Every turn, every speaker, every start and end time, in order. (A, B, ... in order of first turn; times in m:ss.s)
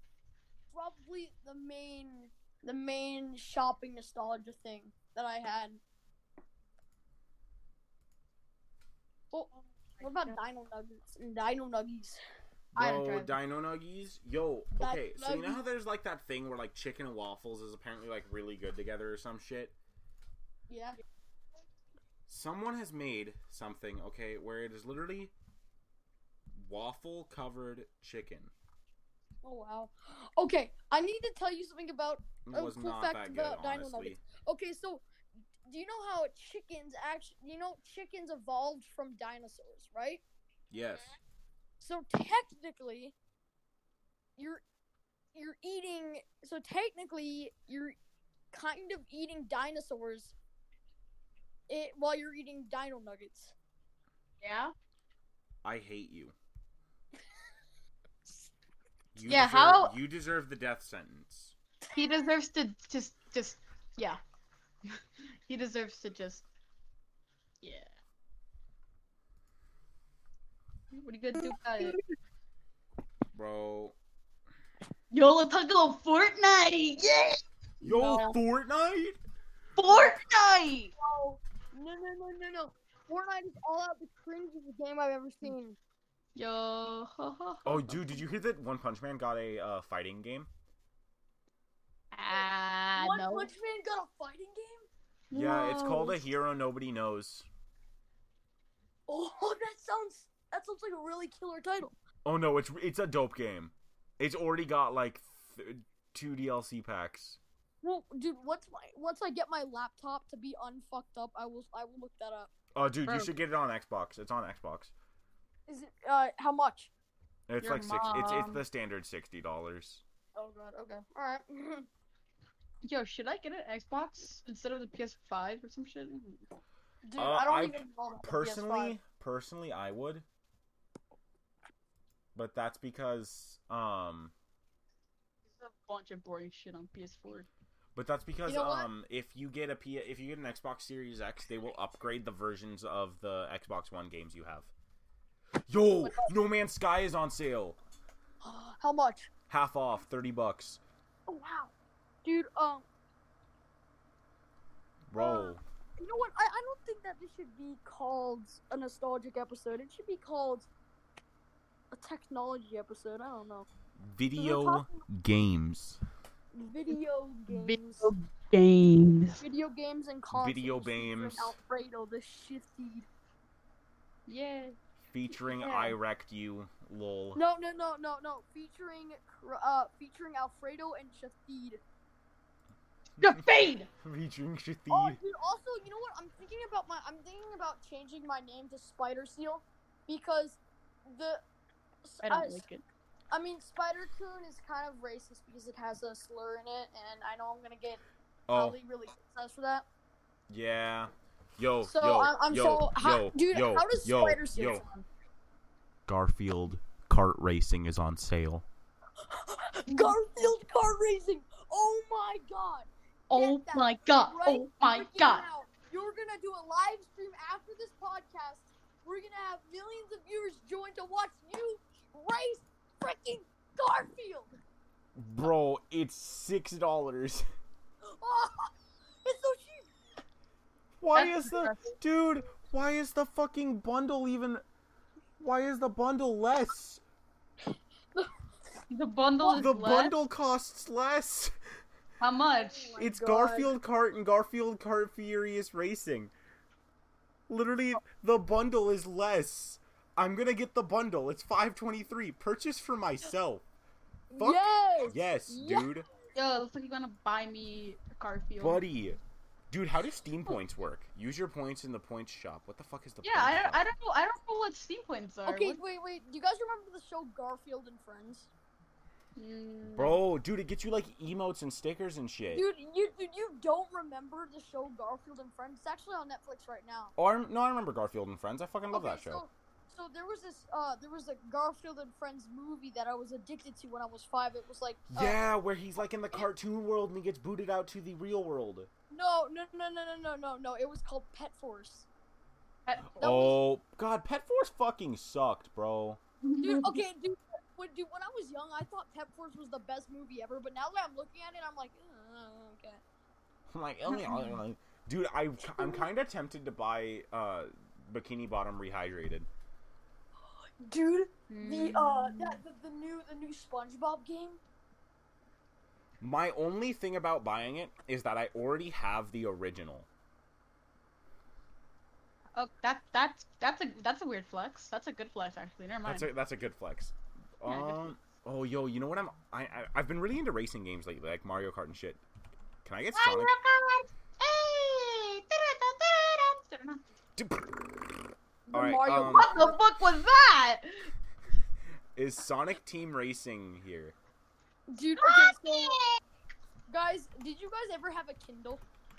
0:00.7-0:05.8 A
0:09.3-0:12.2 A
0:10.0-0:10.4 B
0:12.7-0:19.7 C
0:12.8-0:13.3 B
0:14.8-0:15.6 A
0:20.7-0:21.0 A
0:22.3-0:25.3 C
0:26.5-0:28.5 C
0:29.4-0:35.0 A
0:32.4-0:34.2 C
0:35.7-0:40.2 A
0:40.7-0:41.1 C
0:41.8-0:43.1 A
0:44.4-0:44.6 A
0:45.3-0:48.0 A
0:48.5-0:50.3 A
0:51.7-0:53.5 A
0:54.4-0:54.7 B
0:55.6-0:56.4 C
0:59.1-1:01.6 C
0:59.2-0:59.9 B
1:01.9-1:04.2 B
1:04.9-1:06.4 B
1:07.6-1:07.9 B
1:10.9-1:12.0 B
1:11.4-1:12.0 A
1:13.3-1:14.0 C
1:15.1-1:18.4 B
1:17.8-1:19.2 C
1:19.8-1:20.9 B
1:19.9-1:20.2 A
1:21.0-1:25.8 A
1:26.4-1:28.2 B
1:27.6-1:30.5 C
1:32.1-1:33.5 B
1:32.3-1:34.9 A
1:35.3-1:36.2 B
1:35.3-1:37.5 C
1:39.1-1:41.9 A
1:42.2-1:47.4 C
1:47.8-1:52.5 A
1:52.7-1:54.9 C
1:53.0-1:53.3 B
1:55.7-1:56.9 A
1:57.5-2:00.0 C
1:57.6-1:58.6 B
2:00.3-2:01.9 A
2:02.8-2:06.4 B
2:07.0-2:09.0 A
2:07.2-2:10.2 C
2:12.3-2:14.3 C
2:15.6-2:17.5 B
2:18.0-2:24.7 C
2:18.4-2:18.9 A
2:25.7-2:27.8 C
2:26.0-2:26.3 A
2:28.4-2:29.3 A
2:29.5-2:30.8 C
2:31.3-2:31.7 A
2:32.2-2:32.8 A
2:35.1-2:35.6 C
2:35.2-2:40.7 A
2:41.9-2:43.7 A
2:44.0-2:46.0 C
2:44.4-2:45.0 A
2:46.5-2:48.1 A
2:47.5-2:49.4 B
2:49.4-2:53.1 A
2:50.3-2:51.6 C
2:54.3-2:54.8 B
2:55.1-2:57.4 C
2:55.5-2:55.9 B
2:57.3-3:01.8 A
3:03.2-3:03.9 B
3:04.0-3:05.2 C
3:04.9-3:11.4 A
3:12.0-3:12.6 A
3:12.2-3:12.8 B
3:13.3-3:19.8 A
3:18.5-3:18.8 C
3:20.5-3:24.8 C
3:21.8-3:25.0 A
3:26.1-3:28.7 C
3:29.2-3:44.6 A
3:29.9-3:30.2 B
3:33.3-3:35.4 B
3:45.2-3:47.5 C
3:48.0-3:48.7 A
3:49.2-3:49.9 A
3:51.0-3:54.6 C
3:51.1-3:51.9 B
3:55.4-3:57.0 C
3:58.9-4:00.1 B
3:59.4-3:59.7 A
3:59.5-4:01.5 C
4:02.2-4:02.9 B
4:02.6-4:03.7 A
4:03.0-4:06.3 C
4:07.5-4:13.6 C
4:14.3-4:15.9 A
4:14.4-4:16.0 C
4:16.3-4:18.8 B
4:18.6-4:19.2 C
4:19.7-4:23.8 C
4:23.2-4:25.8 B
4:25.4-4:28.5 A
4:29.4-4:30.2 B
4:29.9-4:32.6 C
4:32.5-4:37.1 A
4:37.2-4:39.4 C
4:38.9-4:45.4 A
4:45.1-4:48.9 C
4:49.1-4:52.1 A
4:52.8-4:53.2 B
4:53.2-4:56.2 C
4:53.2-4:53.6 A
4:56.4-4:57.0 B
4:56.6-5:03.0 A
5:03.7-5:09.5 C
5:04.1-5:04.6 B
5:05.6-5:06.1 A
5:10.4-5:14.6 A
5:11.5-5:12.6 B
5:16.2-5:20.1 C
5:22.5-5:26.3 B
5:26.0-5:32.2 C
5:27.6-5:28.1 B
5:32.8-5:33.5 C
5:33.1-5:37.0 B
5:37.4-5:38.2 C
5:38.7-5:39.8 A
5:38.7-5:39.5 C
5:39.2-5:41.1 B
5:42.2-5:44.1 C
5:44.9-5:46.0 A
5:45.2-5:46.2 B
5:46.9-5:48.8 A